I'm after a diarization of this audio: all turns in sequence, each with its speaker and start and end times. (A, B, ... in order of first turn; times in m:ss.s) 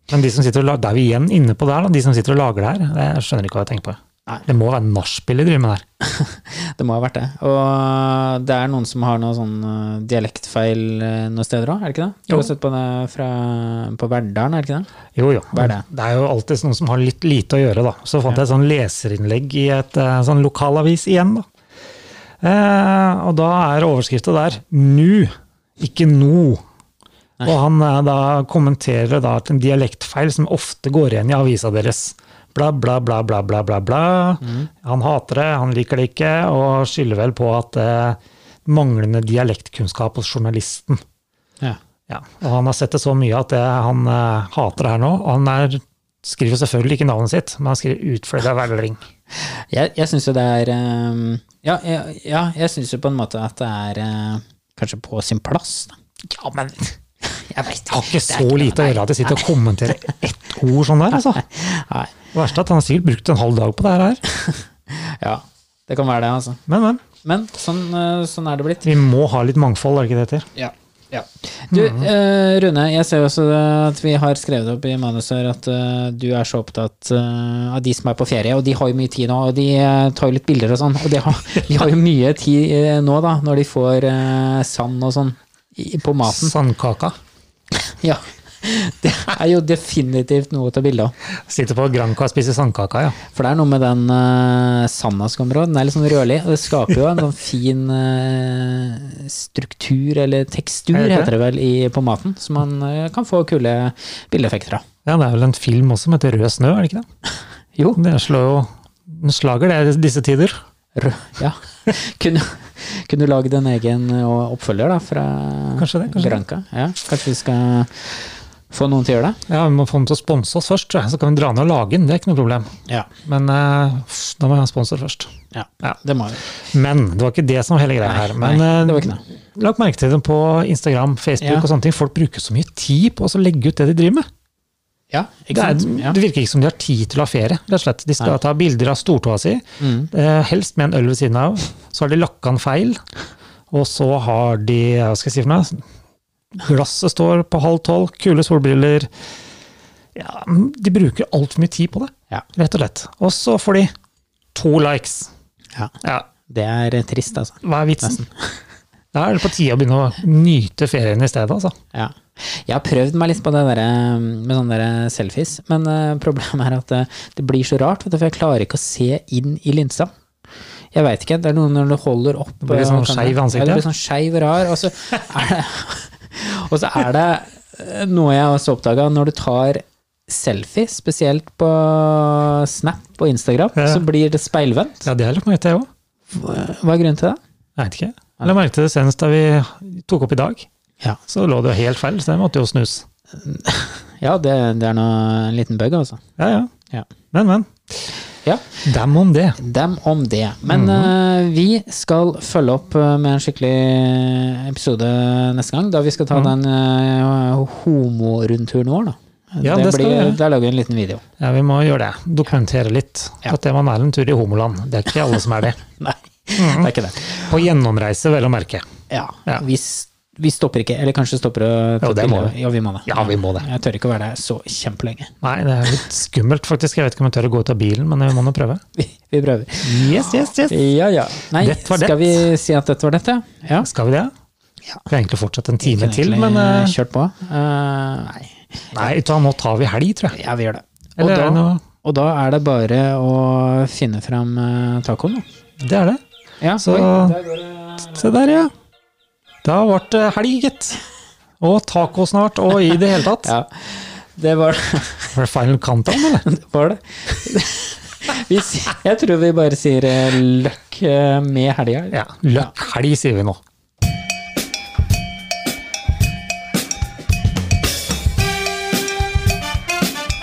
0:00.1-0:05.8 A
0:06.0-0:14.9 B
0:15.2-0:21.4 A
0:15.5-0:15.8 B
0:22.4-0:26.6 A
0:27.4-0:41.0 A
0:34.4-0:34.7 B
0:42.1-0:49.0 A
0:49.4-0:55.9 B
0:56.2-0:56.9 A
0:57.4-0:59.5 B
0:57.9-1:01.4 A
1:01.1-1:02.1 B
1:02.3-1:04.2 A
1:04.9-1:06.6 B
1:06.7-1:07.0 A
1:07.2-1:08.8 B
1:08.8-1:10.5 A
1:10.6-1:26.5 B
1:11.7-1:12.1 A
1:26.2-1:27.2 A
1:27.9-1:31.1 B
1:31.4-1:33.2 A
1:33.3-1:44.8 B
1:40.9-1:41.3 A
1:45.0-1:47.0 A
1:47.8-1:48.0 B
1:48.0-1:50.6 A
1:51.0-1:59.4 B
1:55.8-1:56.4 A
1:59.5-2:02.7 A
2:03.2-2:05.3 A
2:05.5-2:06.4 B
2:06.7-2:14.3 A
2:08.0-2:09.2 B
2:11.4-2:11.7 B
2:15.1-2:16.2 B
2:15.5-2:23.0 A
2:19.8-2:20.1 B
2:23.7-2:25.8 A
2:26.5-2:29.1 A
2:30.1-2:33.9 A
2:34.5-2:35.3 A
2:36.5-2:38.4 B
2:37.6-2:38.2 A
2:39.1-2:41.7 A
2:41.9-2:50.1 B
2:50.9-3:05.1 B
2:52.6-2:53.8 A
3:03.8-3:04.0 A
3:05.0-3:05.9 A
3:06.3-3:07.4 B
3:07.8-3:10.7 A
3:11.3-3:13.0 A
3:13.4-3:16.2 B
3:16.4-3:16.7 A
3:17.3-3:18.1 A
3:18.4-3:18.8 B
3:18.8-3:19.6 A
3:19.6-3:31.2 B
3:20.6-3:21.1 A
3:29.6-3:30.4 A
3:31.4-3:35.8 A
3:36.0-3:37.5 B
3:36.6-3:38.8 A
3:39.1-3:45.3 B
3:42.0-3:43.7 A
3:45.4-3:48.8 A
3:49.0-3:53.9 B
3:49.8-3:50.8 A
3:51.6-3:52.4 A
3:53.8-3:54.3 A
3:55.0-3:57.0 A
3:55.8-3:59.1 B
3:58.9-4:00.4 A
4:00.3-4:05.4 B
4:01.2-4:01.8 A
4:05.8-4:06.2 A
4:06.6-4:08.3 B
4:06.8-4:07.4 A
4:08.1-4:08.7 A
4:09.6-4:11.0 A
4:11.6-4:13.5 A
4:13.4-4:15.4 B
4:15.3-4:16.4 A
4:16.4-4:22.7 B
4:22.1-4:23.6 A